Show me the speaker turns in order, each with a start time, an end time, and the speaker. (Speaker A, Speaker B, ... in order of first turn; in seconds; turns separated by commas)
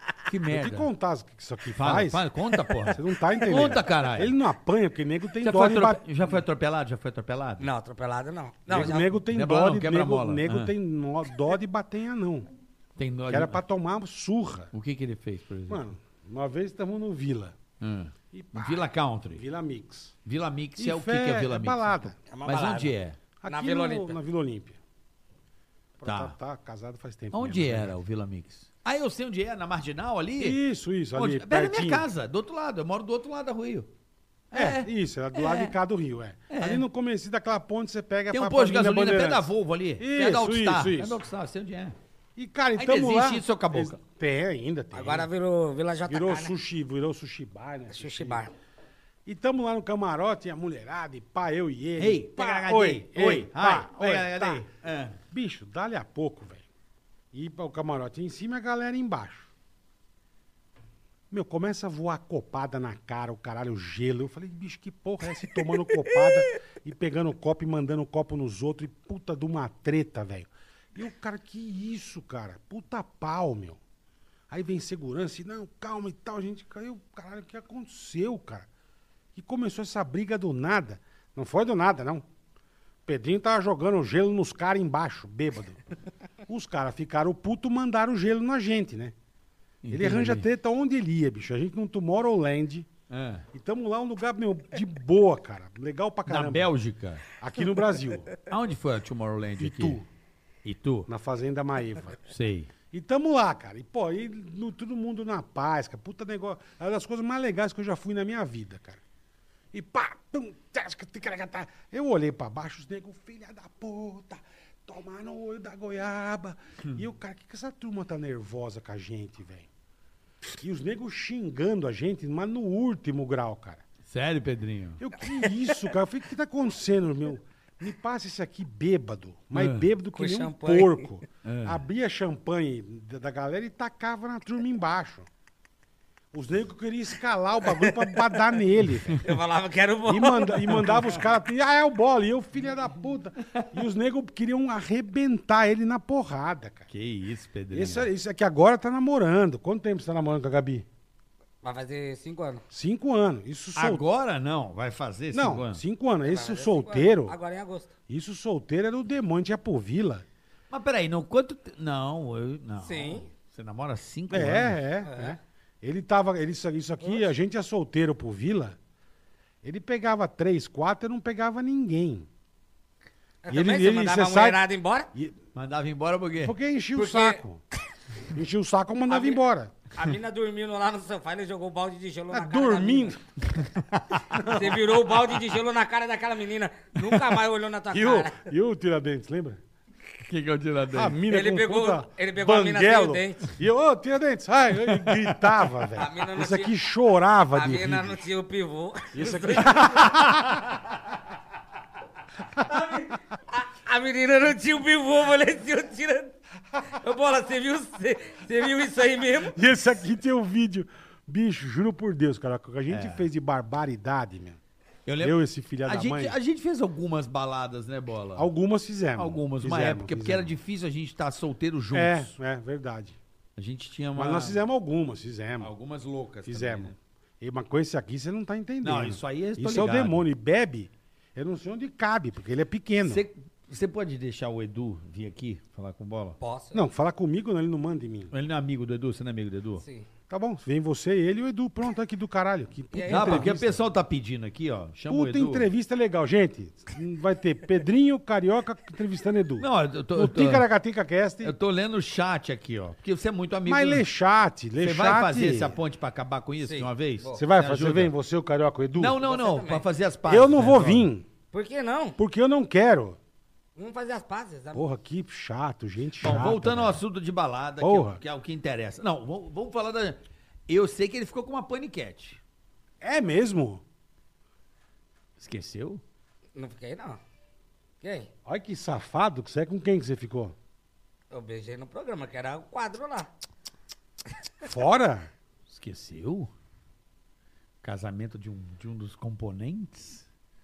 Speaker A: 0.3-0.9, Speaker B: 0.5-2.2, Speaker A: 1.7-4.4, Speaker B: 2.9-6.4, Speaker A: 5.4-7.7, Speaker C: 7.6-9.1, Speaker B: 8.7-12.5, Speaker A: 8.7-10.7, Speaker A: 13.0-13.6, Speaker B: 13.3-14.7, Speaker A: 14.7-15.8, Speaker B: 15.7-17.6, Speaker A: 17.8-19.4, Speaker B: 18.3-20.2, Speaker A: 20.2-23.2, Speaker B: 20.8-22.2, Speaker C: 22.3-24.2, Speaker B: 23.4-24.8, Speaker B: 26.0-27.9, Speaker A: 26.0-26.4, Speaker A: 27.3-30.6, Speaker B: 30.4-32.1, Speaker A: 31.1-33.9, Speaker A: 34.5-35.8, Speaker B: 34.5-41.2, Speaker A: 36.5-36.8, Speaker A: 38.3-42.0, Speaker B: 42.4-45.3, Speaker A: 42.8-44.0, Speaker C: 44.9-46.5, Speaker B: 46.1-48.5, Speaker C: 47.9-48.5, Speaker B: 49.3-54.6, Speaker A: 52.0-55.2, Speaker B: 55.3-56.6, Speaker B: 57.3-59.5, Speaker B: 61.3-73.8, Speaker B: 74.5-78.7, Speaker B: 79.3-82.2, Speaker B: 83.1-85.8, Speaker B: 86.5-89.1, Speaker A: 89.8-90.5, Speaker B: 89.9-92.9, Speaker A: 93.1-93.5, Speaker B: 93.5-96.7, Speaker A: 96.3-97.2, Speaker B: 97.4-98.3, Speaker A: 98.5-100.0, Speaker B: 99.6-100.1, Speaker A: 100.7-101.1, Speaker B: 101.1-102.2, Speaker A: 102.3-102.7, Speaker B: 102.9-109.0, Speaker B: 109.7-119.7, Speaker B: 120.6-123.8, Speaker A: 124.1-125.0, Speaker B: 125.0-135.3, Speaker A: 129.5-129.9, Speaker C: 130.1-131.1, Speaker A: 131.4-131.8, Speaker B: 136.3-139.2, Speaker C: 137.7-138.2, Speaker C: 139.1-141.0, Speaker B: 140.1-146.9, Speaker A: 146.9-148.1, Speaker B: 147.7-150.8, Speaker C: 151.6-152.7, Speaker B: 152.7-154.1, Speaker A: 153.8-155.8, Speaker B: 155.3-157.4, Speaker C: 156.2-157.9, Speaker B: 158.1-160.2, Speaker A: 160.7-164.8, Speaker C: 162.8-163.3, Speaker B: 164.3-168.8, Speaker C: 165.1-165.4, Speaker B: 169.6-172.3, Speaker C: 173.4-175.1, Speaker B: 173.5-174.6, Speaker A: 175.6-176.6, Speaker B: 176.4-177.6, Speaker C: 177.0-177.4, Speaker B: 178.3-179.7, Speaker C: 179.1-179.4, Speaker C: 179.9-183.2, Speaker B: 182.3-183.2, Speaker A: 183.6-184.3, Speaker B: 184.3-184.9, Speaker C: 184.4-188.5, Speaker B: 187.9-189.6, Speaker A: 190.2-191.2, Speaker B: 190.9-198.2, Speaker C: 191.3-193.5, Speaker A: 194.8-195.3, Speaker C: 195.9-196.7, Speaker C: 197.5-200.0, Speaker B: 199.2-200.6, Speaker C: 203.5-209.6, Speaker B: 209.5-214.6, Speaker A: 212.9-213.3, Speaker A: 215.1-218.5, Speaker B: 215.2-216.4, Speaker B: 218.4-220.6, Speaker A: 219.2-222.3, Speaker B: 221.9-223.2, Speaker A: 223.6-224.6, Speaker B: 224.2-225.7, Speaker A: 225.6-227.0, Speaker B: 226.5-233.2, Speaker A: 228.8-230.3, Speaker A: 233.0-236.4, Speaker C: 236.4-236.9, Speaker B: 236.7-238.3, Speaker A: 238.3-239.8, Speaker C: 239.8-240.1, Speaker B: 240.3-243.8, Speaker C: 242.9-243.5, Speaker A: 243.1-245.7, Speaker B: 245.1-251.5, Speaker A: 249.6-250.7, Speaker A: 251.4-254.1, Speaker B: 253.7-255.8, Speaker A: 254.8-258.1, Speaker C: 256.6-257.4, Speaker B: 257.4-259.2, Speaker A: 259.0-261.1, Speaker C: 259.2-259.9, Speaker B: 260.3-261.3, Speaker C: 261.5-262.2, Speaker B: 262.2-263.2, Speaker C: 263.8-264.8, Speaker B: 264.7-267.0, Speaker A: 266.2-272.4, Speaker B: 267.8-268.2, Speaker B: 273.0-273.8, Speaker A: 275.4-276.0, Speaker C: 276.6-277.2, Speaker C: 278.0-278.3, Speaker B: 278.5-280.6, Speaker C: 281.3-283.3, Speaker B: 284.6-285.3, Speaker A: 285.7-286.5, Speaker A: 287.8-290.3